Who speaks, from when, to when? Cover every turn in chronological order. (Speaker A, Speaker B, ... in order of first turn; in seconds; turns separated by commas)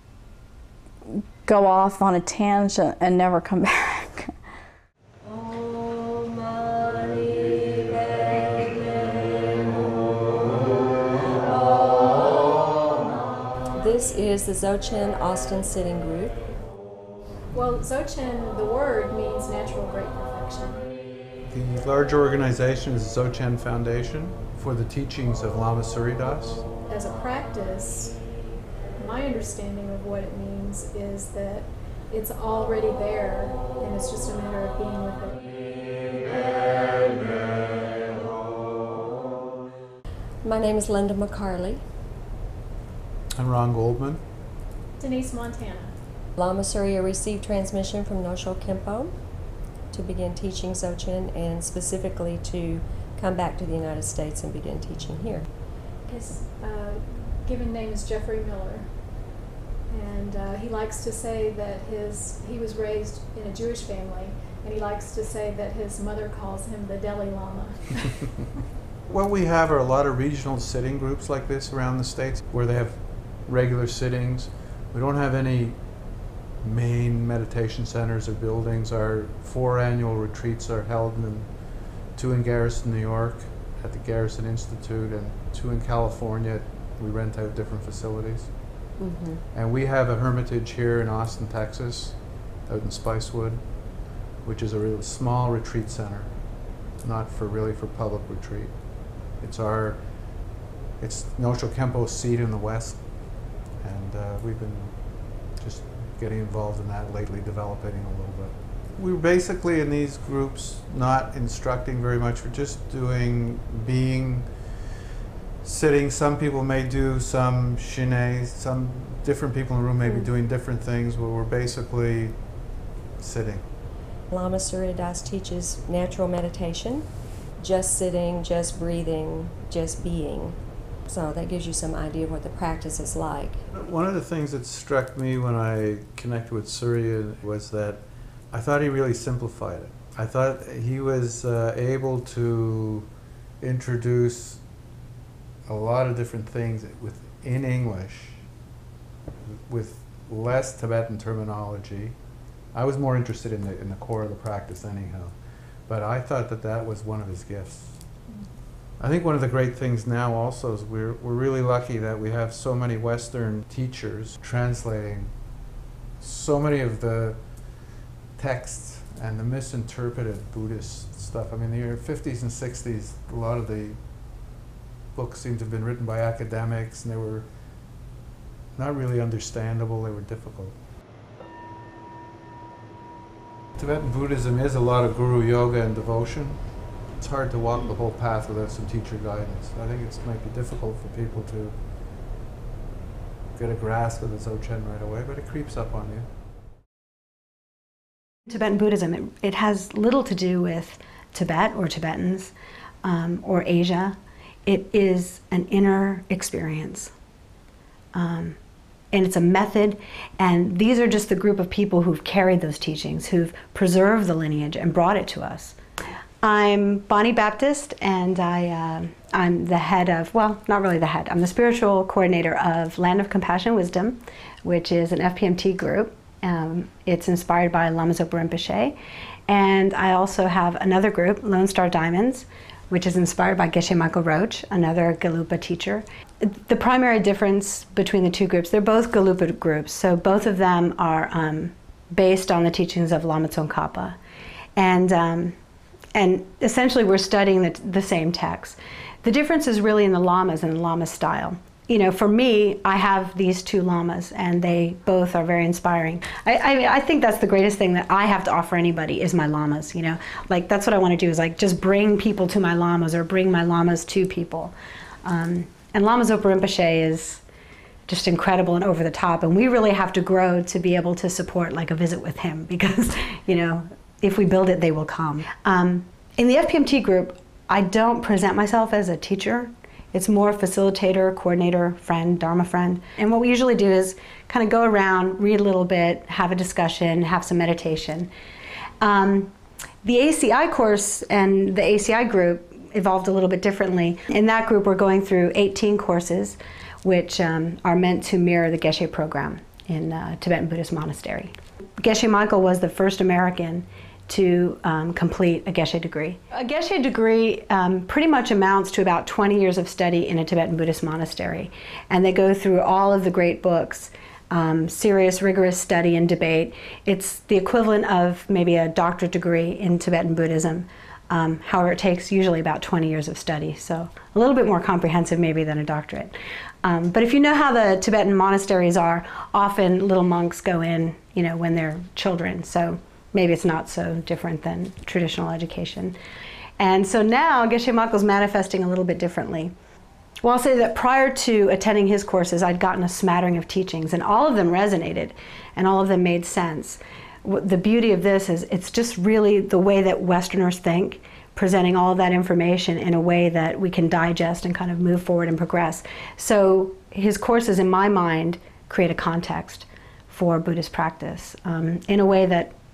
Speaker A: 1.4-4.3, Speaker B: 5.2-16.6, Speaker C: 17.5-20.9, Speaker D: 21.4-26.7, Speaker C: 26.9-28.3, Speaker C: 29.0-38.6, Speaker B: 40.4-41.8, Speaker D: 43.4-44.2, Speaker C: 45.0-46.0, Speaker B: 46.4-55.5, Speaker C: 56.1-59.3, Speaker C: 59.9-68.3, Speaker D: 69.1-88.8, Speaker B: 89.0-89.4, Speaker D: 89.5-115.0, Speaker D: 115.6-123.9, Speaker B: 120.0-120.3, Speaker B: 124.3-133.7, Speaker D: 133.7-144.9, Speaker D: 145.7-148.6, Speaker D: 149.4-158.2, Speaker D: 159.0-174.6, Speaker D: 175.1-177.9, Speaker D: 178.8-180.8, Speaker D: 183.8-192.1, Speaker D: 193.5-196.3, Speaker E: 198.5-202.5, Speaker E: 203.0-207.1, Speaker E: 208.1-208.6, Speaker E: 209.1-215.8, Speaker E: 216.4-229.0, Speaker E: 229.5-244.2, Speaker E: 244.8-245.6, Speaker E: 246.2-267.4, Speaker E: 268.1-288.3, Speaker E: 289.0-336.2, Speaker E: 336.8-339.7, Speaker E: 340.4-362.7